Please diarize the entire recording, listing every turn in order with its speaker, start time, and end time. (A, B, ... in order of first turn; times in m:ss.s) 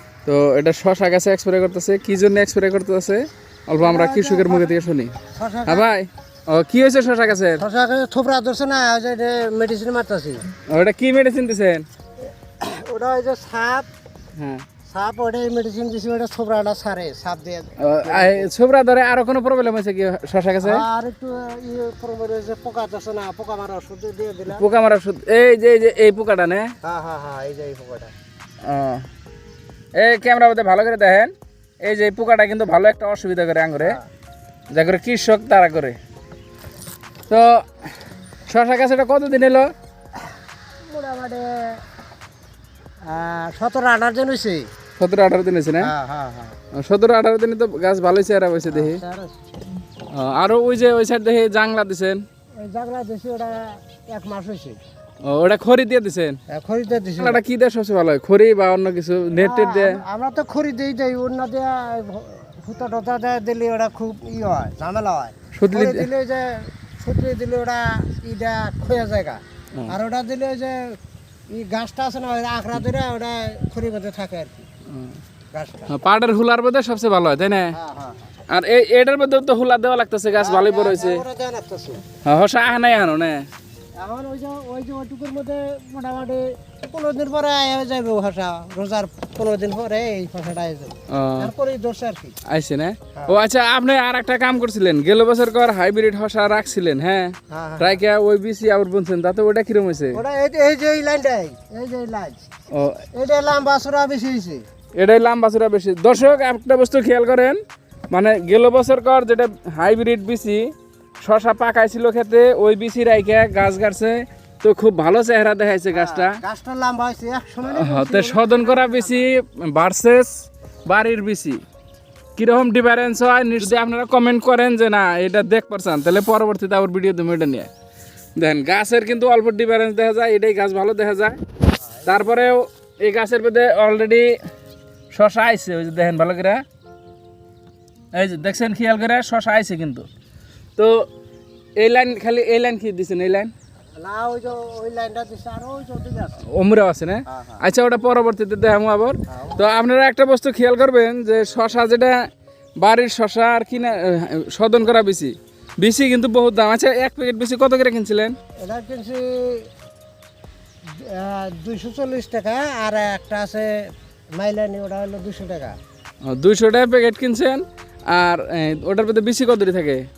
0:00.2-0:05.2 A
0:03.8-0:04.8 B
0:05.3-0:05.9 B
0:05.7-0:07.6 A
0:07.6-0:10.4 B
0:10.7-0:11.8 A
0:12.6-0:13.9 B
0:14.4-0:14.6 A
0:14.8-0:18.5 B
0:17.8-0:20.8 A
0:20.6-0:24.6 B
0:24.5-0:26.7 A
0:26.8-0:28.1 B
0:28.6-0:29.0 A
0:29.9-0:34.0 A
0:34.7-0:36.0 A
0:37.3-0:37.8 A
0:38.5-0:39.7 A
0:40.9-0:41.8 B
0:43.0-0:44.7 B
0:45.0-0:45.9 A
0:45.8-0:46.6 B
0:46.7-0:49.0 A
0:48.7-0:49.3 B
0:50.1-0:52.2 A
0:52.6-0:54.8 B
0:55.2-0:56.4 A
0:56.5-0:57.4 B
0:57.2-1:00.0 A
0:59.4-1:11.0 B
1:05.5-1:06.1 A
1:11.5-1:14.6 B
1:14.9-1:15.2 A
1:15.5-1:15.9 B
1:15.9-1:17.8 A
1:17.7-1:18.3 B
1:18.5-1:21.2 A
1:20.4-1:22.0 B
1:22.2-1:23.4 A
1:24.0-1:32.4 B
1:31.1-1:31.5 A
1:32.4-1:40.2 A
1:37.5-1:38.0 B
1:40.1-1:42.5 B
1:42.7-1:43.0 A
1:43.1-1:44.6 B
1:45.0-1:47.6 A
1:48.1-1:56.4 A
1:55.9-1:59.3 B
1:57.6-2:01.6 A
2:02.4-2:07.7 A
2:08.4-2:11.4 A
2:11.9-2:12.4 B
2:12.0-2:14.4 A
2:15.1-2:16.6 A
2:18.1-2:20.1 A
2:20.8-2:21.1 A
2:21.8-2:23.5 A
2:24.0-2:26.4 B
2:26.4-2:32.2 A
2:27.3-2:27.6 B
2:29.3-2:29.7 B
2:32.8-2:38.3 A
2:38.6-2:39.7 B
2:40.9-2:45.8 B
2:46.2-2:50.0 A